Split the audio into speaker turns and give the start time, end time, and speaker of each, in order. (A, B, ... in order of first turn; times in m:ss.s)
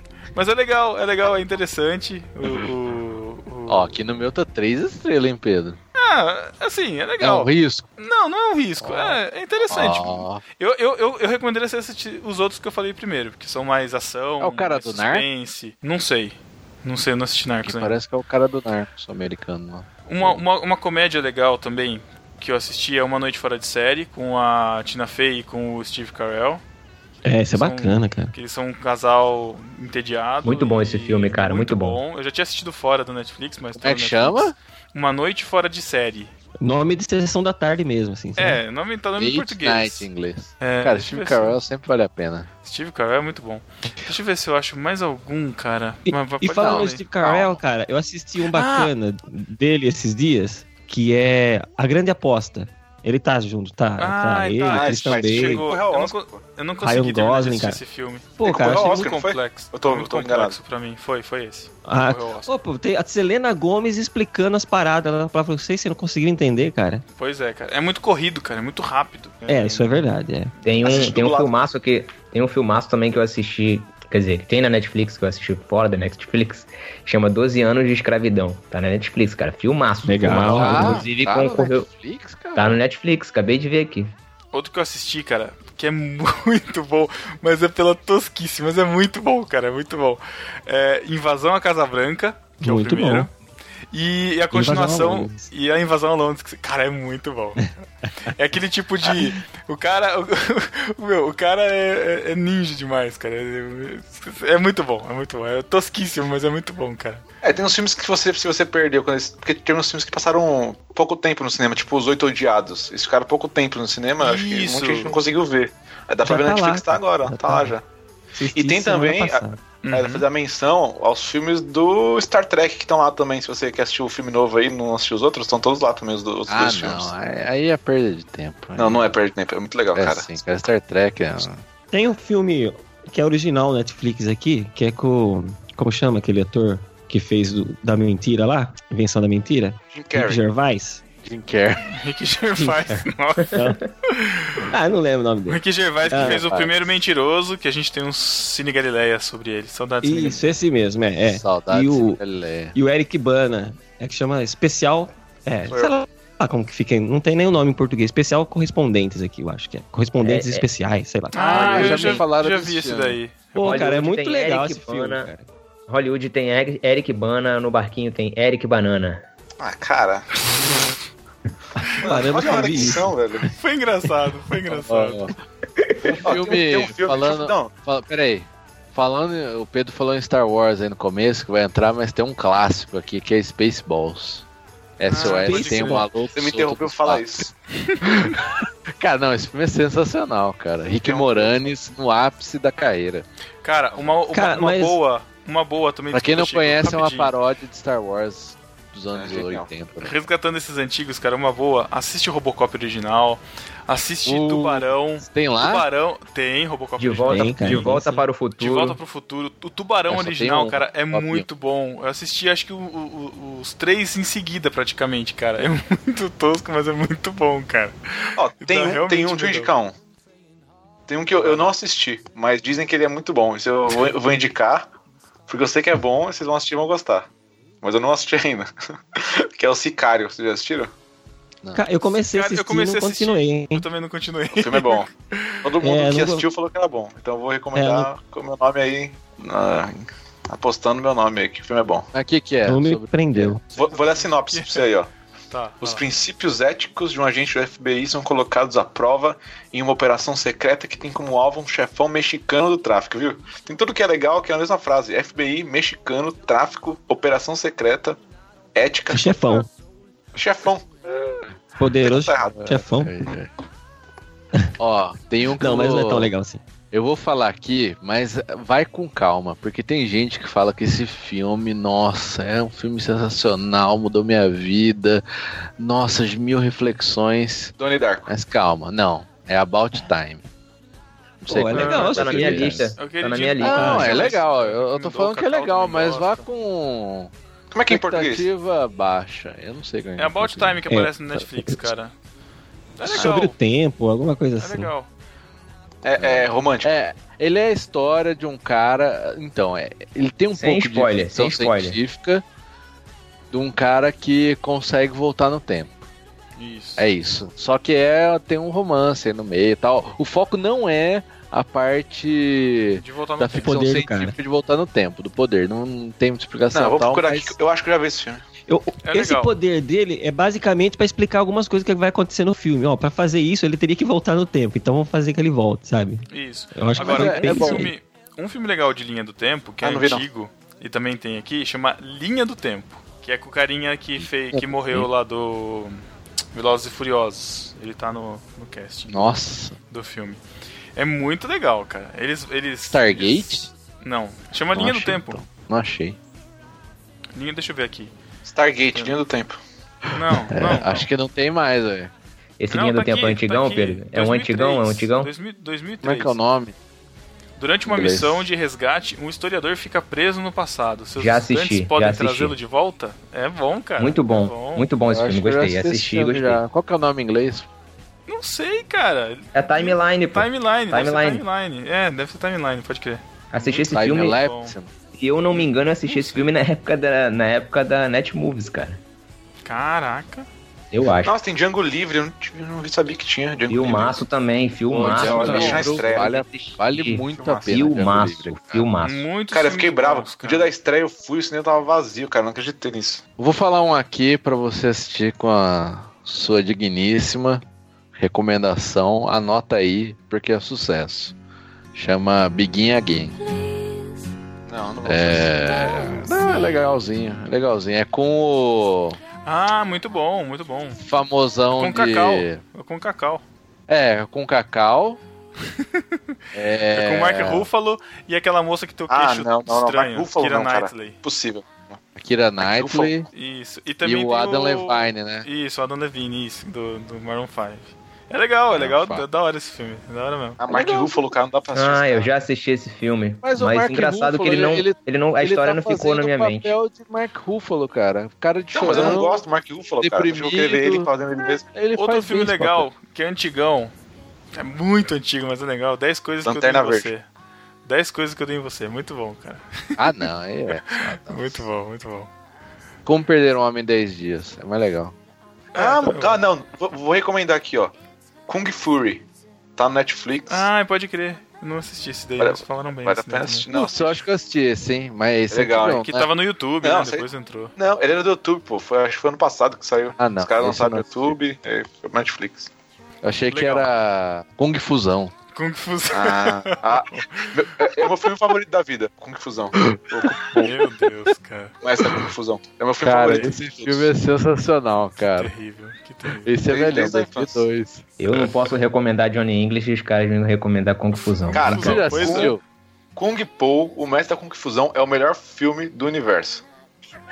0:00.3-0:03.9 A
0:03.7-0:05.8 B
0:06.0-0:18.0 A
0:07.2-0:07.9 B
0:08.8-0:09.2 B
0:09.7-0:10.4 B
0:14.4-0:15.2 B
0:17.6-0:20.4 B
0:20.1-0:26.6 A
0:27.2-0:28.3 C
0:27.5-0:36.3 A
0:30.4-0:32.0 D
0:33.8-0:34.5 B
0:36.6-0:38.6 C
0:38.4-0:40.1 A
0:39.2-0:42.5 B
0:40.6-0:41.6 A
0:42.6-0:47.1 A
0:46.0-0:55.7 C
0:46.5-0:47.5 B
0:48.5-0:48.9 A
0:54.0-1:02.5 A
0:54.7-0:56.4 E
0:56.8-0:57.8 C
0:58.4-0:59.1 C
0:58.4-1:00.6 E
1:01.8-1:07.0 C
1:07.2-1:10.0 A
1:09.5-1:10.5 C
1:10.6-1:21.9 D
1:10.8-1:11.7 E
1:20.0-1:21.0 C
1:20.2-1:22.8 B
1:22.5-1:24.1 D
1:24.5-1:33.3 A
1:32.6-1:33.3 C
1:33.9-1:47.2 A
1:34.5-1:35.5 C
1:47.4-1:57.8 E
1:54.2-1:55.2 A
1:56.2-1:57.8 C
1:58.3-1:59.6 C
1:58.5-2:07.1 E
1:59.8-2:00.2 A
2:06.5-2:09.0 B
2:08.8-2:10.3 E
2:09.9-2:11.6 B
2:11.9-2:21.0 C
2:19.9-2:20.4 E
2:21.2-2:21.8 B
2:21.9-2:24.7 A
2:22.6-2:23.8 C
2:24.7-2:26.4 C
2:25.5-2:30.4 A
2:26.1-2:26.7 B
2:30.0-2:32.2 C
2:31.3-2:32.7 B
2:32.7-2:42.2 C
2:35.7-2:35.9 E
2:40.2-2:40.6 D
2:41.3-2:44.0 A
2:41.4-2:43.2 B
2:43.5-2:45.5 C
2:43.6-2:45.3 D
2:45.9-2:49.2 D
2:49.6-2:50.2 E
2:51.8-2:53.1 C
2:52.0-2:53.5 E
2:53.5-2:55.3 A
2:54.7-2:55.3 B
2:56.0-3:04.4 B
2:56.2-2:57.7 E
3:05.0-3:07.5 B
3:05.1-3:06.1 A
3:05.2-3:06.2 C
3:06.3-3:07.5 E
3:07.8-3:08.3 A
3:08.0-3:13.2 B
3:10.9-3:11.8 E
3:13.6-3:17.3 A
3:14.3-3:15.0 C
3:16.1-3:20.2 B
3:19.1-3:19.7 E
3:20.0-3:39.7 A
3:24.2-3:25.8 B
3:27.0-3:29.0 D
3:27.3-3:28.2 C
3:30.1-3:31.4 B
3:38.4-3:39.9 E
3:41.1-3:44.9 E
3:45.5-3:47.3 E
3:47.8-3:50.9 E
3:51.6-3:51.9 B
3:51.7-3:53.8 C
3:52.2-3:55.7 A
3:54.5-3:55.1 E
3:55.6-4:02.1 E
3:55.8-3:56.5 C
3:57.7-3:58.1 C
4:02.1-4:03.6 B
4:02.6-4:03.6 C
4:03.7-4:05.1 E
4:03.8-4:04.9 A
4:05.5-4:06.0 A
4:05.8-4:18.2 E
4:18.7-4:19.6 E
4:19.1-4:19.7 C
4:20.3-4:21.0 E
4:21.8-4:23.2 C
4:22.0-4:22.8 E
4:22.6-4:23.5 B
4:24.8-4:26.3 B
4:25.6-4:26.6 C
4:26.9-4:35.2 B
4:35.8-4:37.7 B
4:37.8-4:38.3 E
4:38.3-4:40.4 B
4:41.4-4:42.9 C
4:41.5-4:43.0 B
4:41.7-4:42.2 A
4:41.7-4:44.3 D
4:43.0-4:46.5 A
4:43.6-4:47.3 B
4:43.8-4:44.3 C
4:47.7-4:48.5 E
4:47.9-4:50.8 B
4:50.2-4:52.1 A
4:50.9-4:51.9 C
4:53.0-4:53.6 A
4:53.1-4:54.9 C
4:54.6-4:55.1 A
4:56.0-4:56.9 E
4:56.2-5:02.4 B
5:00.5-5:02.0 D
5:03.5-5:06.0 B
5:06.6-5:07.1 A
5:07.0-5:17.6 B
5:12.9-5:13.8 A
5:13.6-5:14.4 C
5:16.7-5:18.4 E
5:18.7-5:27.9 C
5:19.0-5:19.6 A
5:26.3-5:36.0 A
5:27.0-5:27.9 B
5:27.1-5:27.6 D
5:29.8-5:30.2 E
5:34.2-5:35.0 B
5:36.5-5:39.4 A
5:39.1-5:39.8 B
5:39.9-5:40.4 A
5:41.0-5:45.4 A
5:42.8-5:43.7 B
5:44.8-5:46.2 B
5:47.4-5:48.1 A
5:48.4-5:49.6 E
5:50.0-5:52.1 B
5:50.1-5:51.1 A
5:52.6-5:55.3 D
5:52.7-5:56.4 A
5:56.0-5:56.8 B
5:57.6-6:04.9 A
5:57.8-5:58.5 B
6:01.2-6:02.6 D
6:04.0-6:06.6 D
6:05.1-6:07.7 B
6:08.3-6:14.8 A
6:09.5-6:11.4 D
6:13.5-6:14.4 D
6:13.9-6:14.9 B
6:15.1-6:19.0 D
6:15.5-6:16.5 A
6:19.6-6:20.5 A
6:20.9-6:21.3 D
6:21.2-6:24.2 E
6:23.7-6:29.3 D
6:24.9-6:28.9 B
6:24.9-6:26.4 E
6:27.3-6:27.9 E
6:29.0-6:30.7 A
6:29.5-6:33.2 E
6:33.4-6:41.3 B
6:41.9-6:43.4 B
6:44.7-6:45.6 E
6:45.0-6:49.2 B
6:49.4-6:51.0 A
6:51.0-6:52.6 B
6:51.8-6:53.4 A
6:53.9-6:55.2 B
6:55.7-6:56.2 A
6:56.5-6:57.7 B
6:56.9-7:01.2 A
6:59.1-7:02.0 E
7:02.2-7:03.3 B
7:02.6-7:03.2 E
7:03.3-7:10.6 A
7:04.0-7:05.5 B
7:08.7-7:09.2 B
7:10.6-7:12.3 E
7:10.7-7:11.1 B
7:11.7-7:16.8 D
7:13.4-7:19.4 B
7:18.7-7:21.7 E
7:20.0-7:21.1 B
7:21.6-7:22.8 B
7:21.9-7:23.9 A
7:24.5-7:27.2 A
7:26.4-7:27.1 E
7:27.8-7:32.3 A
7:30.0-7:31.6 B
7:33.0-7:35.1 B
7:35.7-7:37.9 E
7:35.7-7:36.4 A
7:38.5-7:39.2 E
7:39.8-7:40.7 E
7:40.5-7:43.7 A
7:42.4-7:44.2 E
7:43.7-7:46.3 B
7:45.5-7:46.1 E
7:46.0-7:47.7 A
7:46.8-7:52.7 E
7:50.2-7:51.3 B
7:53.2-7:55.3 B
7:53.5-7:53.9 A
7:55.5-7:57.9 A
7:56.1-8:00.5 E
7:59.7-8:00.7 B
8:00.5-8:01.8 A
8:01.8-8:04.1 E
8:03.0-8:05.5 B
8:05.4-8:06.5 A
8:06.3-8:08.0 B
8:06.6-8:07.7 E
8:08.2-8:12.0 D
8:11.1-8:12.5 A
8:11.5-8:12.5 E
8:11.7-8:12.6 B
8:13.2-8:16.6 E